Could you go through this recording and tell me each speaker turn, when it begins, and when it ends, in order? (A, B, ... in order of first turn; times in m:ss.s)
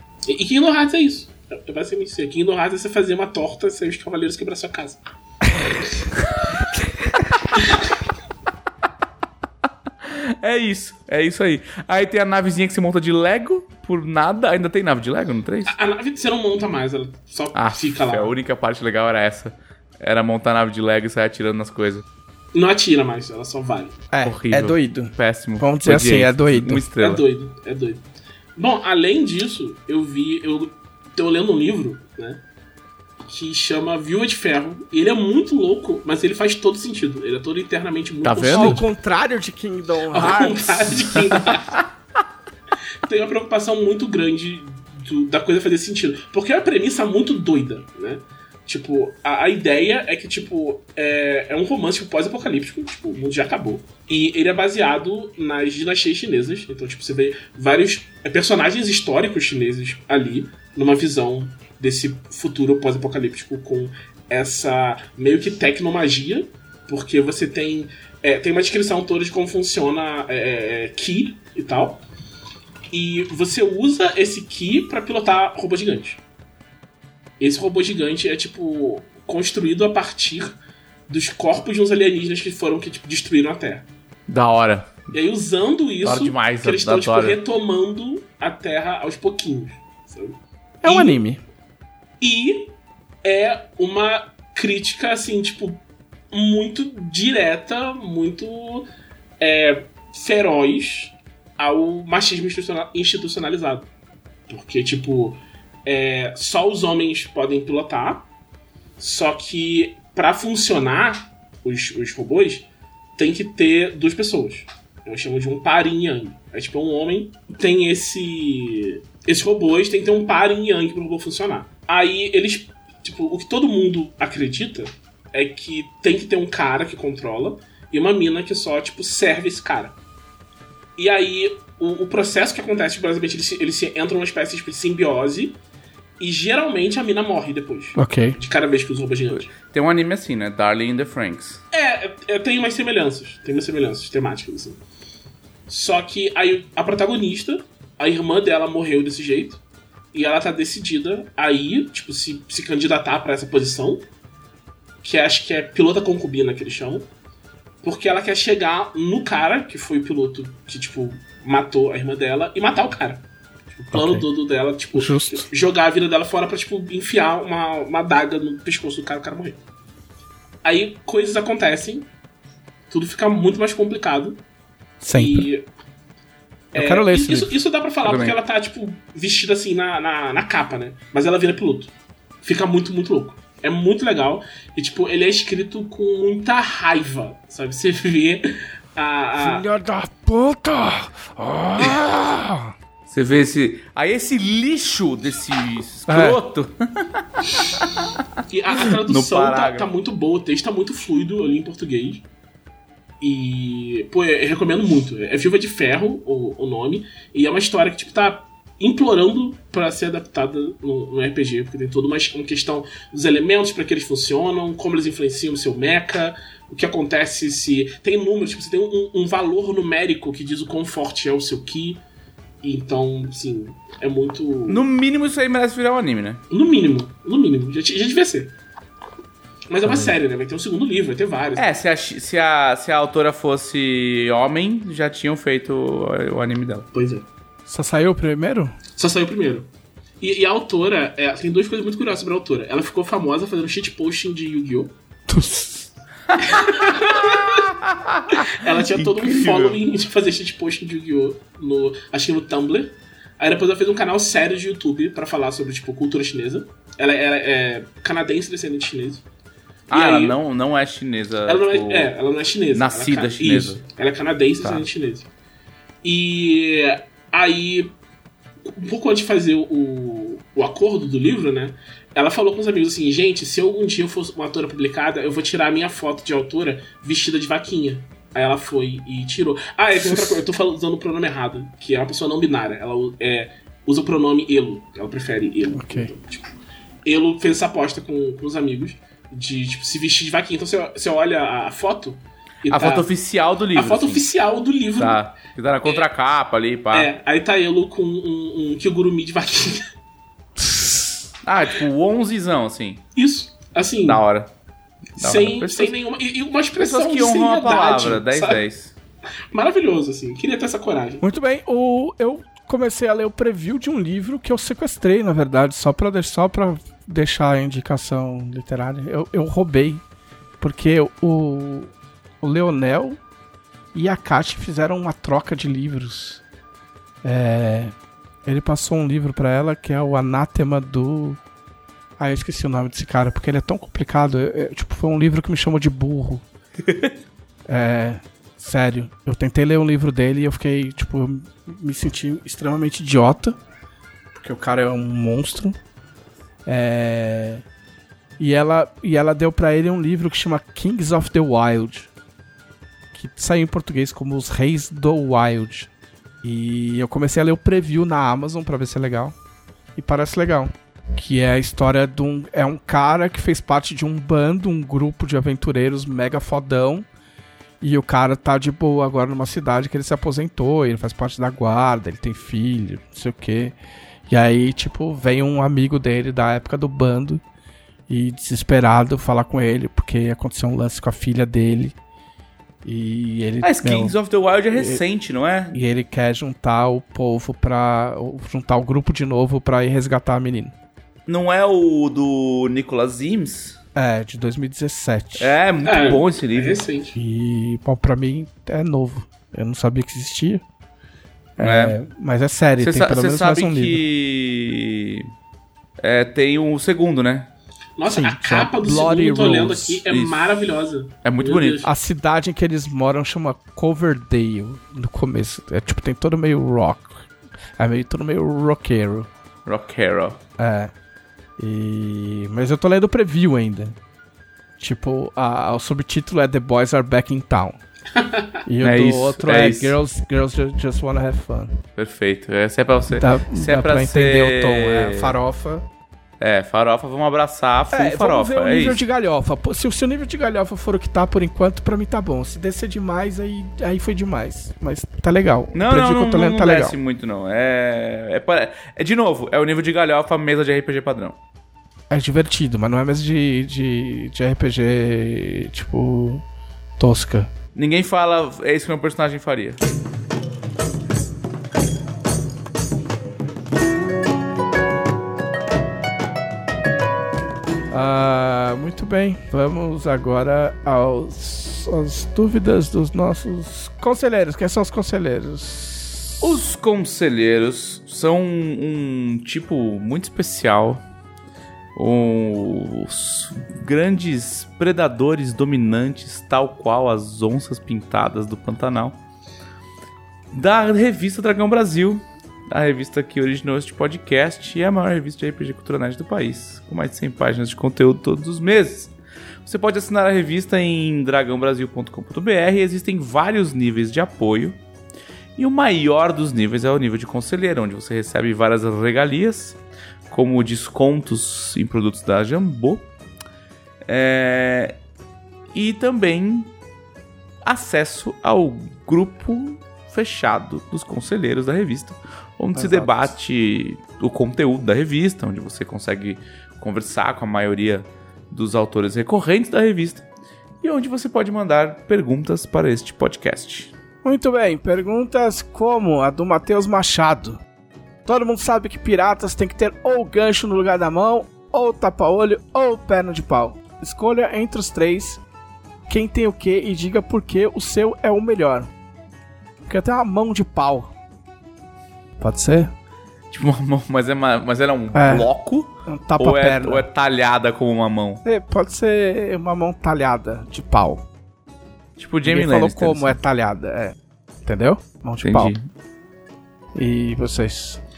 0:00.3-0:05.0 A
0:10.1-0:15.8 B
0:15.7-0:18.4 A
0:17.5-0:22.0 B
0:22.5-0:24.0 A
0:24.1-0:26.9 C
0:24.2-0:27.2 B
0:27.0-0:28.0 A
0:28.6-0:32.4 A
0:33.3-0:38.8 A
0:38.2-0:38.8 B
0:38.5-0:40.9 C
0:40.1-0:41.8 A
0:43.0-1:12.0 A
1:12.9-1:16.2 A
1:17.4-1:20.6 A
1:21.1-1:23.8 A
1:24.3-1:25.0 B
1:25.1-1:31.2 A
1:26.0-1:27.4 B
1:30.8-1:31.4 C
1:32.2-1:32.7 A
1:33.2-1:38.9 A
1:39.4-1:43.9 A
1:44.5-1:48.3 A
1:49.0-2:10.0 A
2:11.0-2:15.6 A
2:16.2-2:19.5 A
2:18.0-2:18.4 C
2:19.3-2:21.6 B
2:21.7-2:24.8 A
2:25.7-2:29.6 A
2:30.1-2:34.1 A
2:35.0-2:37.1 A
2:37.8-2:49.6 A
2:43.9-2:44.3 C
2:45.0-2:45.5 C
2:50.6-2:52.1 A
2:52.9-2:54.4 A
2:55.0-2:55.5 C
2:55.1-2:55.7 A
2:56.7-3:01.9 A
2:56.7-2:57.6 C
2:58.0-2:58.4 B
3:02.4-3:09.7 A
3:09.4-3:12.7 C
3:13.1-3:18.1 B
3:16.1-3:16.4 C
3:18.5-3:22.2 A
3:19.0-3:19.9 B
3:23.2-3:42.0 A
3:42.6-3:44.9 A
3:44.7-3:46.4 B
3:46.5-3:48.5 A
3:49.7-3:51.7 A
3:49.8-3:50.1 C
3:51.6-3:56.9 B
3:56.9-3:57.3 A
3:57.7-3:58.8 C
3:58.9-3:59.7 A
4:00.2-4:04.9 A
4:05.3-4:05.9 C
4:06.3-4:09.8 B
4:06.4-4:07.6 A
4:08.4-4:19.2 A
4:19.9-4:22.1 B
4:19.9-4:20.4 A
4:21.5-4:25.3 A
4:22.8-4:23.8 B
4:26.0-4:28.0 A
4:28.6-4:46.5 A
4:40.0-4:40.4 C
4:45.7-4:46.1 C
4:47.0-4:53.1 A
4:52.7-4:54.2 B
4:53.7-4:55.2 A
4:55.0-4:57.1 B
4:56.9-4:59.9 A
5:00.6-5:01.3 C
5:01.4-5:03.0 B
5:03.2-5:04.2 A
5:04.0-5:04.5 B
5:05.2-5:06.0 B
5:05.2-5:08.6 A
5:06.8-5:08.9 B
5:09.5-5:11.3 A
5:11.2-5:20.0 C
5:20.6-5:23.2 C
5:23.9-5:26.4 C
5:27.2-5:27.9 C
5:28.4-5:31.4 C
5:32.2-5:36.4 C
5:36.9-5:37.1 B
5:37.7-5:43.6 C
5:44.3-5:45.8 C
5:46.7-5:47.6 C
5:48.4-5:52.1 C
5:53.1-5:55.9 C
5:56.4-5:59.4 C
6:00.0-6:07.1 C
6:07.8-6:13.8 C
6:14.3-6:17.4 C
6:18.1-6:22.0 C
6:22.8-6:24.2 C
6:23.6-6:25.8 B
6:24.7-6:25.0 C
6:25.7-6:30.7 C
6:31.3-6:33.8 B
6:34.0-6:35.5 C
6:35.4-6:36.8 B
6:35.8-6:37.2 A
6:37.2-6:40.6 C
6:41.6-6:44.0 C
6:41.6-6:42.0 B
6:42.8-6:45.3 B
6:46.0-6:47.5 B
6:48.0-6:51.9 A
6:48.1-6:50.0 C
6:50.1-6:50.5 B
6:51.2-6:51.9 B
6:51.8-6:57.3 C
6:57.8-6:59.3 C
6:59.7-7:00.4 B
7:00.6-7:00.9 C
7:01.6-7:04.0 C
7:04.8-7:07.8 C
7:08.7-7:11.7 C
7:08.8-7:10.0 B
7:12.0-7:15.4 B
7:13.1-7:15.8 C
7:16.4-7:19.0 B
7:17.9-7:27.0 C
7:25.7-7:31.4 B
7:32.1-7:36.4 C
7:37.0-7:37.5 C
7:37.8-7:39.8 B
7:47.9-7:56.6 C
7:56.4-8:01.0 B
8:02.0-8:09.2 B
8:10.5-8:19.1 B
8:19.6-8:24.8 B
8:25.6-8:29.8 B
8:30.3-8:33.1 B
8:34.1-8:35.0 B
8:35.7-8:36.7 B
8:37.6-8:50.2 B
8:42.8-8:43.3 C
8:50.8-8:53.9 B
8:54.2-8:57.6 C
8:58.3-9:05.4 C
9:06.1-9:08.9 C
9:09.9-9:11.1 C
9:12.4-9:12.9 C
9:13.5-9:18.4 B
9:15.1-9:15.5 C
9:16.1-9:17.0 C
9:18.4-9:21.2 C
9:22.2-9:23.4 B
9:22.5-9:25.7 C
9:25.4-9:25.9 B
9:27.0-9:28.0 C